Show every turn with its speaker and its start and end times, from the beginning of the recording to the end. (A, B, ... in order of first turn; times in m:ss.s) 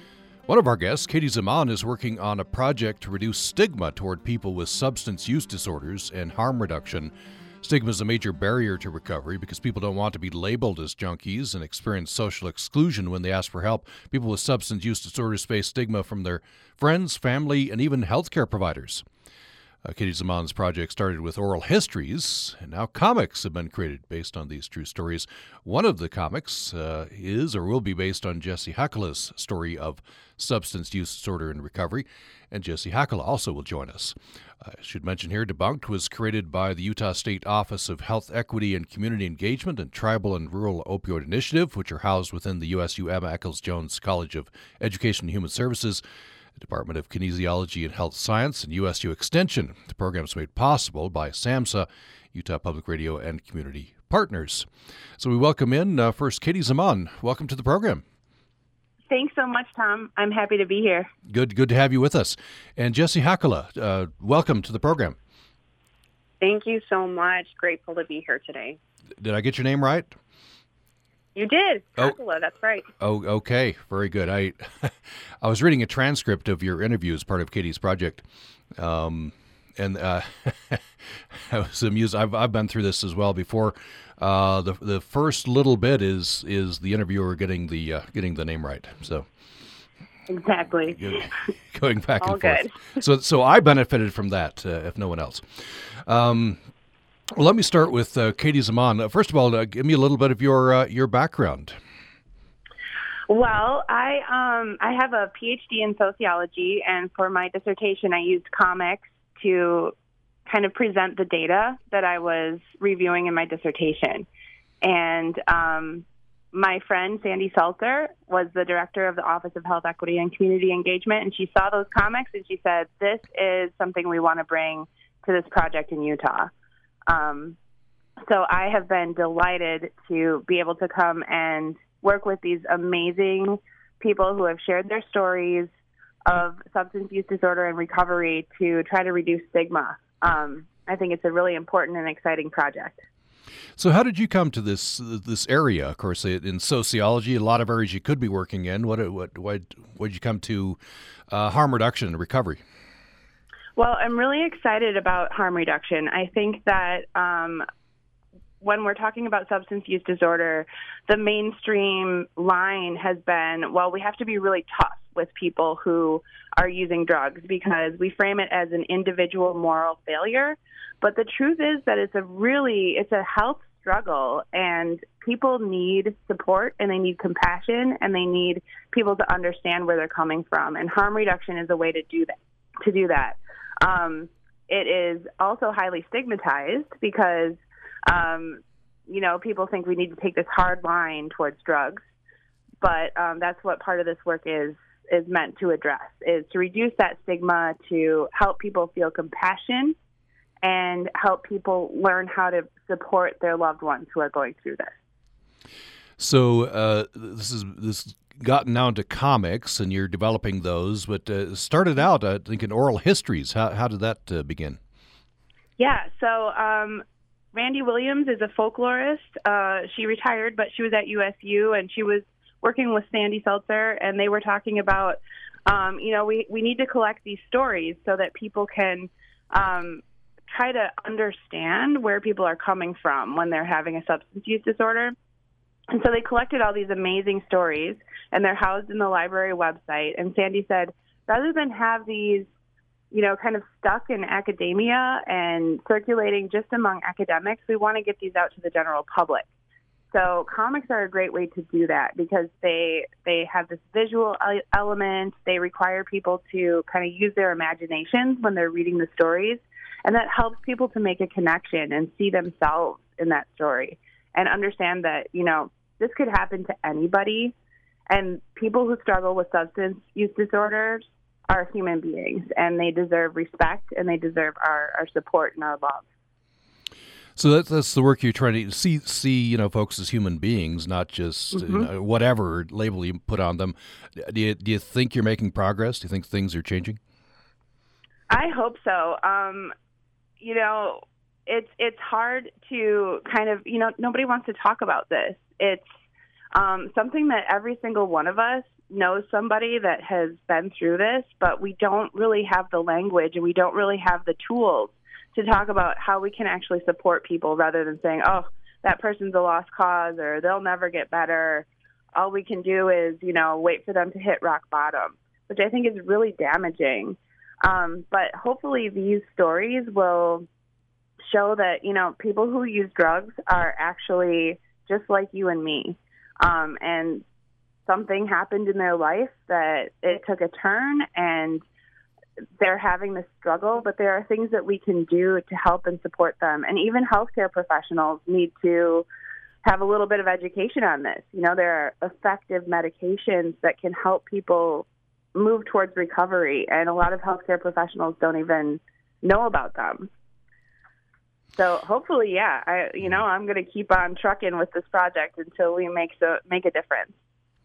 0:00.5-0:19.1 A
0:19.8-0:46.0 A
0:46.6-0:54.7 A
0:55.2-0:58.0 A
0:59.1-1:01.1 B
1:01.3-1:05.2 A
1:06.4-1:08.8 C
1:09.2-1:10.2 A
1:11.4-1:12.9 C
1:13.0-1:18.2 A
1:18.8-1:29.3 A
1:30.3-1:31.2 B
1:31.0-1:36.6 A
1:32.2-1:32.7 B
1:37.4-1:41.8 A
1:43.3-1:50.0 B
1:50.5-1:54.3 B
1:54.8-2:06.5 B
2:07.1-2:07.6 B
2:08.3-2:15.7 B
2:16.3-2:23.0 B
2:23.8-2:30.8 A
2:31.3-2:32.6 A
2:33.8-2:37.7 B
2:38.6-3:12.0 B
3:12.8-3:20.0 B
3:20.6-3:25.0 B
3:26.2-3:34.8 A
3:35.8-3:55.2 B
3:55.9-4:02.5 B
4:03.1-4:09.5 B
4:10.1-4:27.6 B
4:28.1-4:36.1 B
4:37.4-4:47.0 A
4:41.5-4:41.9 B
4:48.3-4:49.7 B
4:50.4-4:55.9 B
4:56.6-5:20.5 B
5:21.3-5:27.2 B
5:27.9-5:31.6 B
5:32.6-5:39.1 B
5:39.6-5:50.1 B
5:51.6-5:57.2 B